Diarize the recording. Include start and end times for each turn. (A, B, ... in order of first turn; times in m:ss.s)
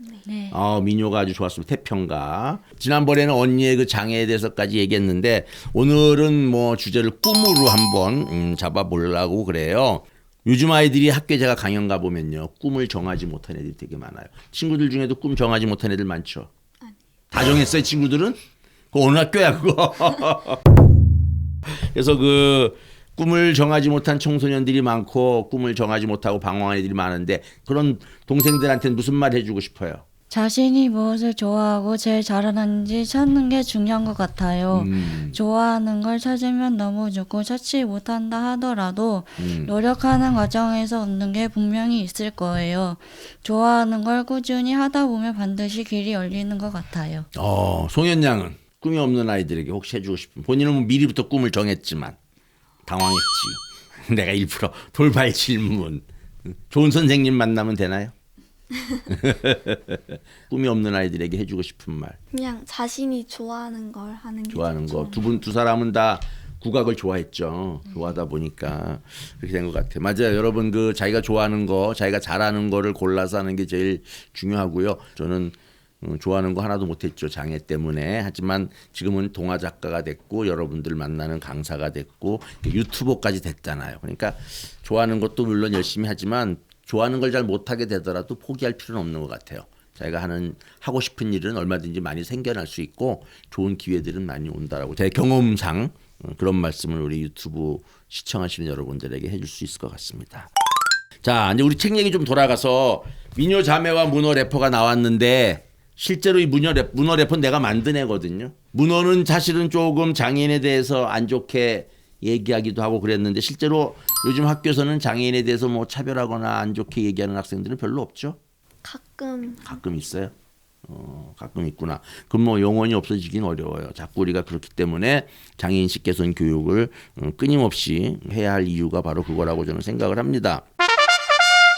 0:00.2-0:00.6 A
0:00.5-0:16.5 B
0:17.3-0:18.4 B
0:18.9-0:20.6 B
0:21.7-0:30.0 B
0:30.3-0:47.3 A
0:34.7-0:35.4 B
0:39.4-0:39.8 B
0:47.4-0:52.2 B
0:52.8-0:58.1 B
0:59.1-1:02.2 B
1:02.3-1:05.3 C
1:04.5-1:40.5 B
1:41.2-1:58.4 B
1:58.8-1:59.8 C
1:59.6-2:00.3 B
2:00.8-2:10.6 B